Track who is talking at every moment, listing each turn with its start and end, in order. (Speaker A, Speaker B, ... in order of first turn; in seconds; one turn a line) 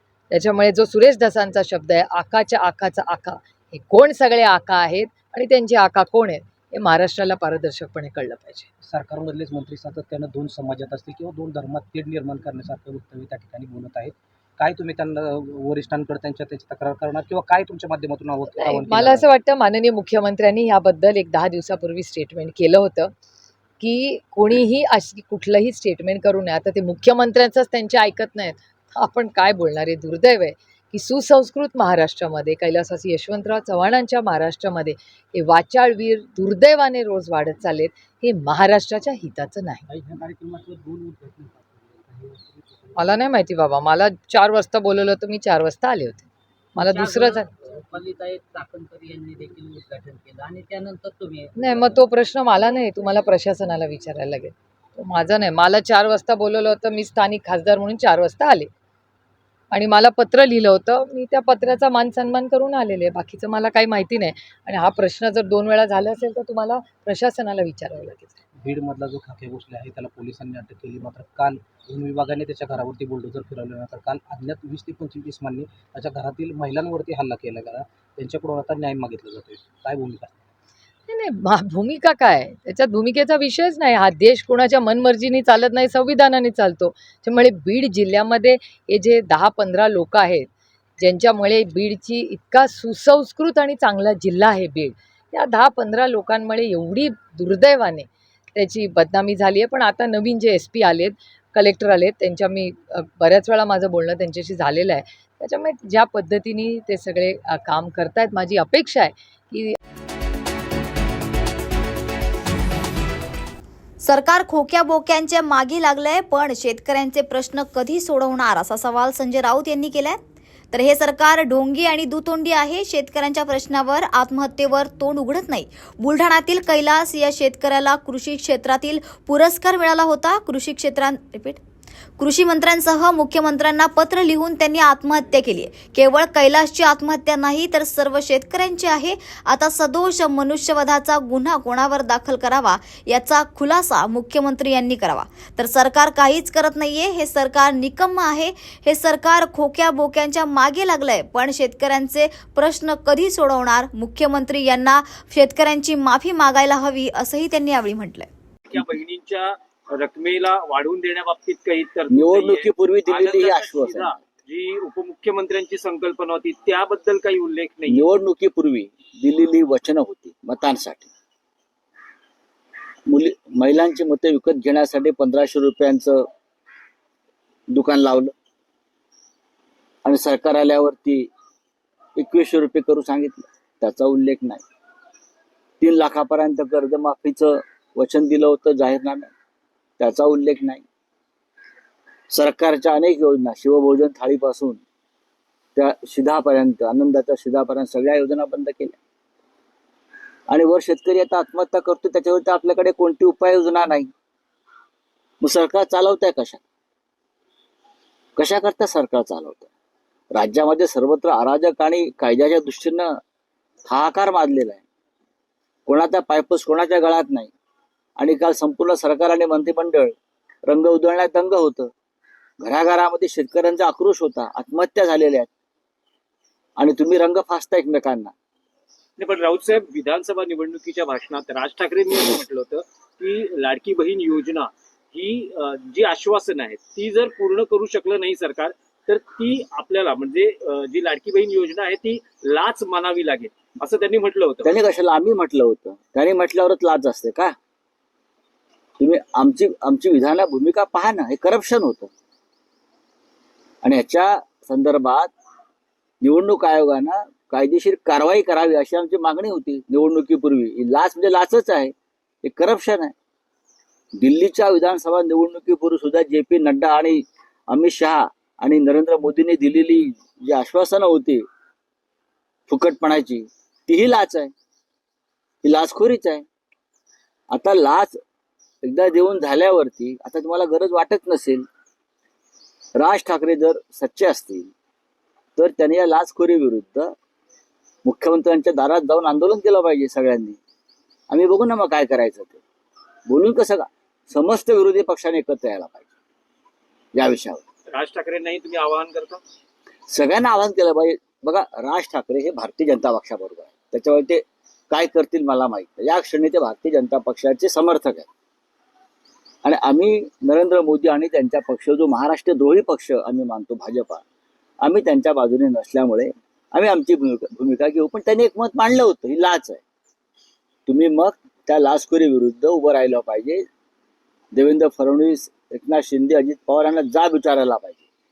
Speaker A: 0.3-8.7
Speaker B: 8.8-19.3
Speaker A: 18.5-23.1
Speaker A: 23.8-39.9
Speaker C: 39.9-43.1
Speaker A: 43.0-47.5
Speaker C: 46.8-52.0
Speaker A: 51.6-58.7
Speaker A: 59.7-68.4
Speaker B: 68.6-80.4
Speaker A: 81.1-109.8
Speaker D: 114.0-120.2
Speaker D: 120.7-131.6
Speaker D: 132.2-158.3
Speaker E: 158.7-168.1
Speaker F: 162.1-164.2
Speaker F: 167.9-171.1
Speaker F: 173.1-176.3
Speaker F: 177.7-178.3
Speaker F: 180.1-181.3
Speaker F: 182.2-184.6
Speaker F: 185.8-189.3
Speaker F: 190.0-190.8
Speaker F: 192.3-194.8
Speaker F: 195.8-199.0
Speaker F: 200.5-204.1
Speaker F: 205.4-206.6
Speaker F: 208.4-209.7
Speaker F: 210.3-213.2
Speaker F: 213.8-214.8
Speaker F: 215.9-217.5
Speaker F: 218.2-220.2
Speaker F: 220.7-221.9
Speaker F: 222.6-225.5
Speaker F: 226.8-228.3
Speaker E: 229.2-244.7
Speaker F: 244.6-247.6
Speaker F: 249.0-252.1
Speaker F: 253.8-255.3
Speaker F: 256.2-263.1
Speaker F: 264.2-271.4
Speaker F: 272.7-274.5
Speaker F: 275.6-276.4
Speaker F: 277.5-278.2
Speaker F: 278.8-281.7
Speaker F: 282.9-284.7
Speaker F: 285.6-287.1
Speaker F: 288.0-290.6
Speaker F: 291.3-292.6
Speaker F: 293.3-296.1
Speaker F: 297.1-297.7
Speaker E: 297.9-299.4
Speaker F: 300.1-308.3
Speaker F: 309.6-314.2
Speaker F: 314.8-319.8
Speaker F: 320.9-323.7
Speaker F: 324.5-328.0